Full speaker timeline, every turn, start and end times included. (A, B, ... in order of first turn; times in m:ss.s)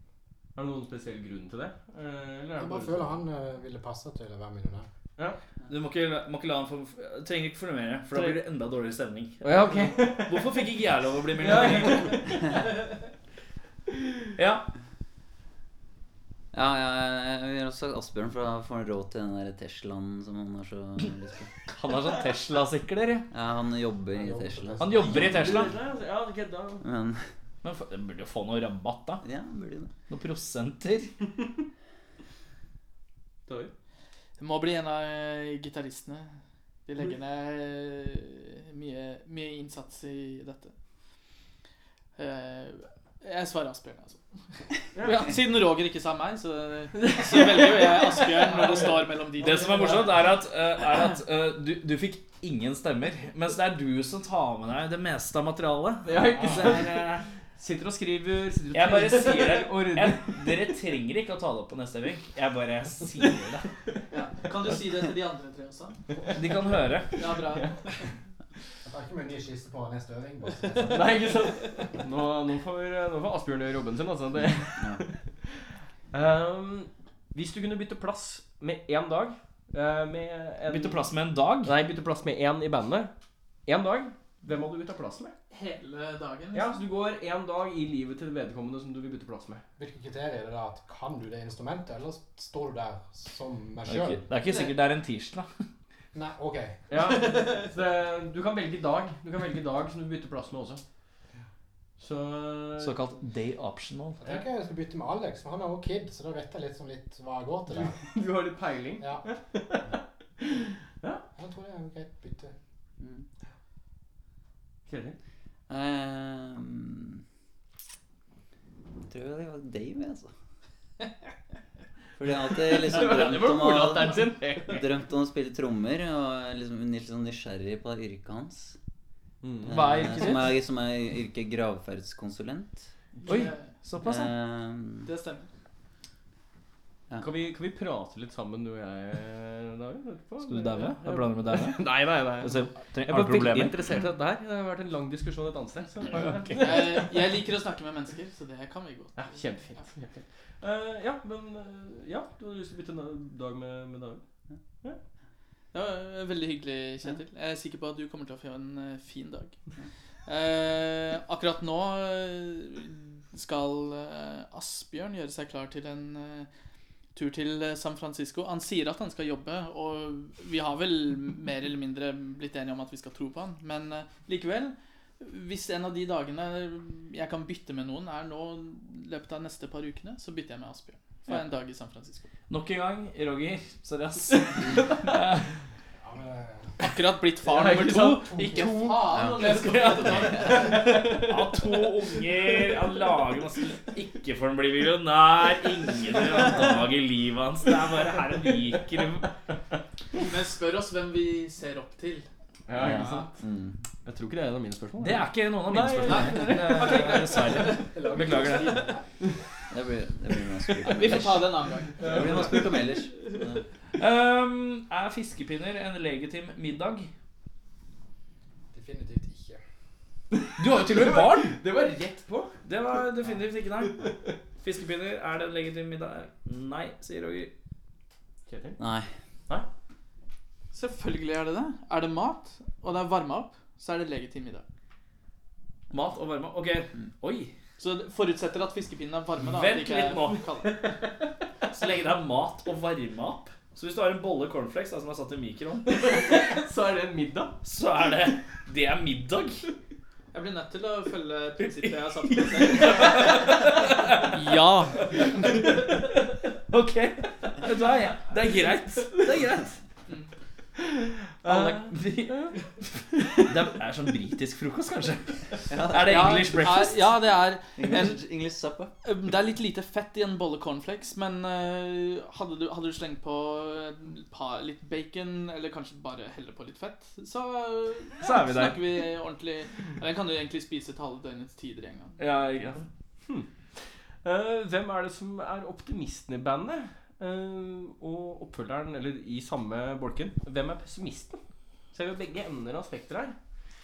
0:00.6-0:03.2 A
0:02.6-0:04.9 B
0:05.7-0:12.2 C
0:08.1-0:08.4 A
0:09.4-0:10.6 A
0:11.4-0:12.4 A
0:14.4-0:14.7 C
0:16.5-0:21.5 D
0:21.7-0:23.3 C
0:23.3-0:25.6 D
0:24.1-0:25.4 B
0:24.8-0:25.8 C
0:25.0-0:26.8 A
0:26.8-0:27.3 D
0:27.6-0:29.2 C
0:29.2-0:29.9 D
0:30.1-0:31.1 C
0:33.5-0:33.7 A
0:34.4-0:40.7 E
0:42.2-0:44.2 E
0:45.0-0:45.2 A
0:45.0-0:50.2 E
0:47.0-0:49.0 A
0:49.4-0:57.2 C
0:49.7-0:50.0 A
0:56.0-1:00.4 A
0:58.7-1:03.7 C
1:04.1-1:06.0 E
1:06.3-1:07.2 C
1:07.2-1:07.9 E
1:07.2-1:07.8 A
1:08.8-1:11.4 B
1:10.9-1:21.1 A
1:14.8-1:15.0 D
1:20.7-1:21.7 C
1:21.6-1:23.1 A
1:23.6-1:25.4 A
1:25.5-1:26.8 E
1:26.5-1:29.6 A
1:29.8-1:34.3 B
1:33.9-1:35.5 C
1:34.4-1:34.7 E
1:36.1-1:36.9 B
1:36.9-1:40.8 A
1:37.2-1:37.7 E
1:42.0-1:43.0 A
1:42.8-1:44.4 C
1:44.2-1:48.0 B
1:47.7-1:51.2 A
1:49.0-1:49.3 B
1:51.4-1:52.5 B
1:53.0-1:53.3 D
1:54.9-1:55.2 A
1:55.7-1:57.2 D
1:59.1-2:00.3 D
2:02.2-2:08.8 D
2:02.5-2:04.8 A
2:09.4-2:10.2 A
2:09.7-2:12.9 D
2:09.7-2:10.6 C
2:13.2-2:13.7 E
2:13.3-2:14.3 C
2:14.0-2:15.1 D
2:15.0-2:15.5 E
2:17.2-2:27.0 A
2:20.4-2:23.8 C
2:26.1-2:26.7 C
2:26.6-2:29.9 E
2:29.2-2:34.2 A
2:35.7-2:39.6 E
2:40.3-2:46.5 E
2:47.1-3:02.3 E
3:02.5-3:05.5 C
3:06.0-3:06.8 B
3:06.8-3:11.3 E
3:07.5-3:09.0 A
3:08.4-3:08.6 B
3:09.1-3:10.8 D
3:09.5-3:19.3 C
3:10.5-3:11.1 A
3:20.2-3:22.3 E
3:22.7-3:23.3 A
3:22.8-3:23.3 E
3:22.8-3:23.8 D
3:24.0-3:27.7 A
3:25.0-3:28.8 C
3:26.0-3:28.6 E
3:27.9-3:29.0 B
3:29.7-3:33.6 D
3:30.8-3:32.2 E
3:32.0-3:32.8 A
3:32.1-3:32.5 C
3:34.0-3:37.1 C
3:38.7-3:39.6 B
3:40.3-3:42.6 A
3:40.6-3:41.6 C
3:42.6-3:47.5 C
3:43.8-3:44.3 A
3:48.5-3:48.8 A
3:48.8-3:49.1 D
3:50.7-3:54.6 E
3:55.9-3:57.5 C
3:57.8-4:00.8 E
3:59.5-4:00.4 C
4:01.7-4:06.3 C
4:05.9-4:07.6 A
4:07.6-4:09.7 C
4:10.3-4:15.4 E
4:11.6-4:14.4 C
4:15.1-4:16.0 C
4:16.7-4:19.8 C
4:21.4-4:21.7 A
4:21.4-4:22.6 C
4:23.4-4:27.1 C
4:25.7-4:26.5 D
4:26.0-4:28.2 E
4:27.8-4:28.9 D
4:29.0-4:42.2 E
4:38.2-4:38.8 C
4:42.2-4:42.9 C
4:43.3-4:51.4 A
4:51.9-4:53.4 A